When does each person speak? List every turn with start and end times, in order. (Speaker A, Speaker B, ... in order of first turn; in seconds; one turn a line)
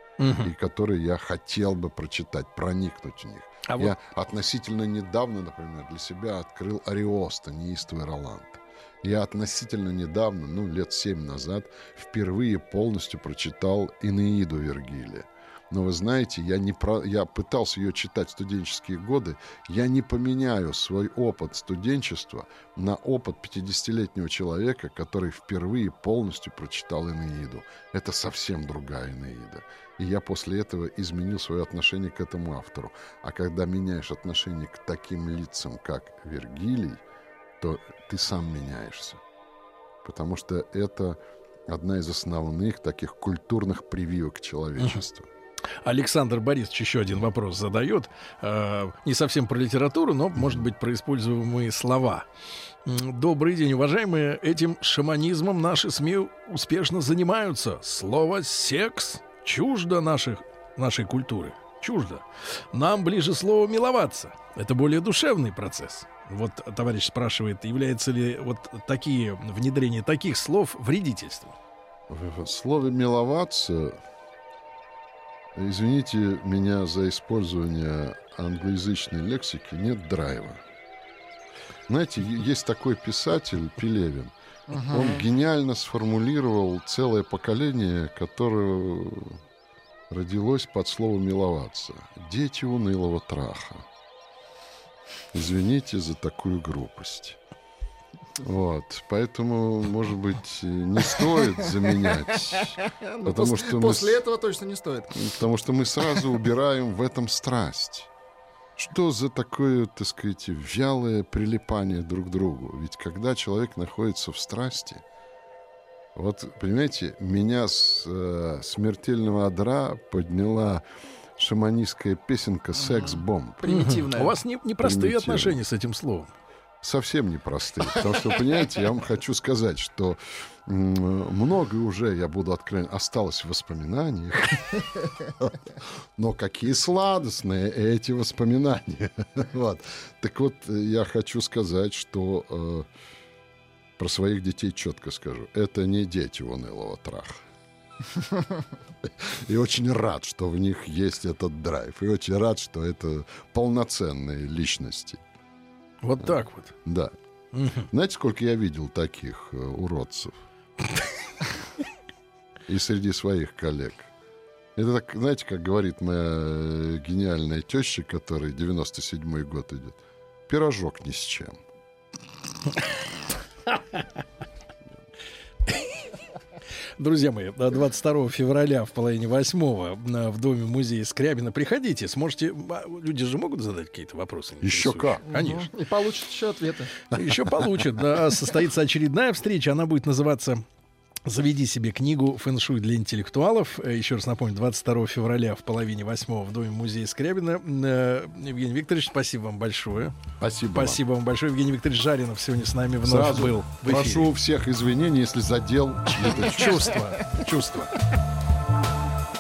Speaker A: 0.2-0.5
Speaker B: 0.4-37.0
Speaker A: 3.7-4.0
Speaker B: 37.6-39.2
Speaker B: 40.0-45.3
Speaker A: 45.8-52.3
Speaker A: 52.9-71.6
Speaker B: 72.1-74.0
Speaker B: 75.5-80.6
Speaker B: 81.9-89.4
Speaker C: 84.7-85.2
Speaker B: 90.1-93.9
Speaker B: 95.3-97.4
Speaker B: 98.4-104.2
Speaker C: 102.6-105.3
Speaker B: 105.1-108.1
Speaker B: 108.8-115.0
Speaker B: 116.2-120.8
Speaker B: 121.4-123.6
Speaker C: 122.8-124.4
Speaker A: 123.7-126.3
Speaker B: 124.8-125.6
Speaker B: 126.8-142.9
Speaker B: 144.0-147.4
Speaker B: 149.0-155.2
Speaker A: 156.0-156.8
Speaker B: 156.8-157.1
Speaker A: 157.5-157.9
Speaker B: 157.9-160.4
Speaker B: 162.7-164.1
Speaker B: 164.8-171.5
Speaker A: 173.7-174.0
Speaker A: 175.7-176.1
Speaker A: 177.0-185.7
Speaker B: 184.6-185.2
Speaker C: 185.3-187.0
Speaker A: 187.1-190.6
Speaker B: 187.2-187.7
Speaker A: 191.3-200.2
Speaker B: 200.4-201.0
Speaker A: 200.7-204.3
Speaker B: 203.0-206.9
Speaker A: 206.2-207.9